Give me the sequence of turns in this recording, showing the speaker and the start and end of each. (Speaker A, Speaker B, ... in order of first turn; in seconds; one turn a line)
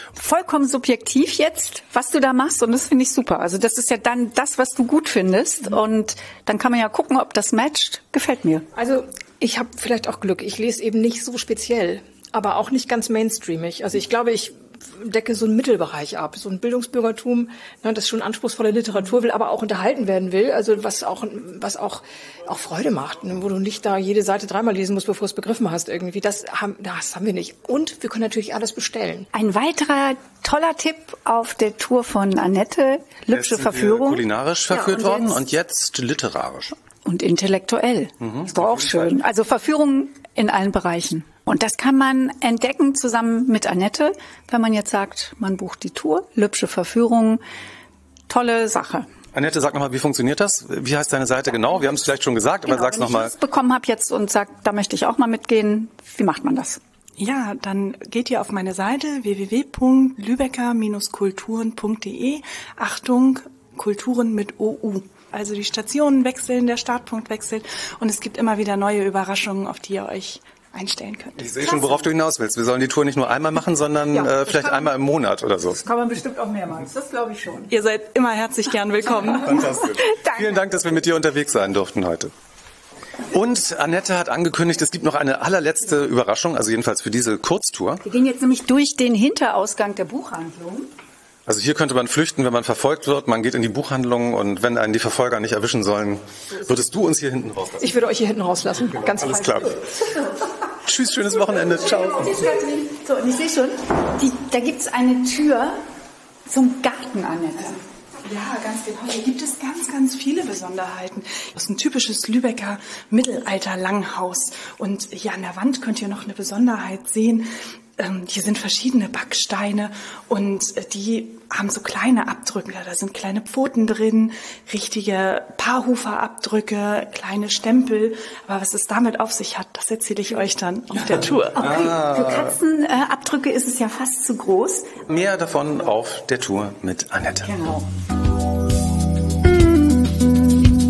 Speaker A: 0.1-8.7
Speaker B: 8.7-29.3
Speaker A: 29.3-35.4
Speaker C: 33.3-36.7
Speaker A: 37.0-47.4
Speaker C: 38.2-39.1
Speaker A: 48.3-49.1
Speaker C: 49.3-53.3
Speaker A: 52.6-56.8
Speaker D: 57.2-71.9
Speaker C: 71.4-75.8
Speaker A: 74.1-74.9
Speaker A: 75.7-77.7
Speaker D: 77.7-79.6
Speaker C: 79.4-82.3
Speaker A: 79.6-80.7
Speaker C: 83.3-88.0
Speaker A: 88.0-90.9
Speaker C: 91.5-98.0
Speaker B: 97.8-99.8
Speaker C: 99.2-99.8
Speaker C: 100.8-102.4
Speaker A: 101.8-105.8
Speaker A: 106.5-107.8
Speaker D: 108.2-131.6
Speaker A: 131.5-134.9
Speaker C: 131.6-132.5
Speaker C: 135.1-137.5
Speaker A: 137.4-137.9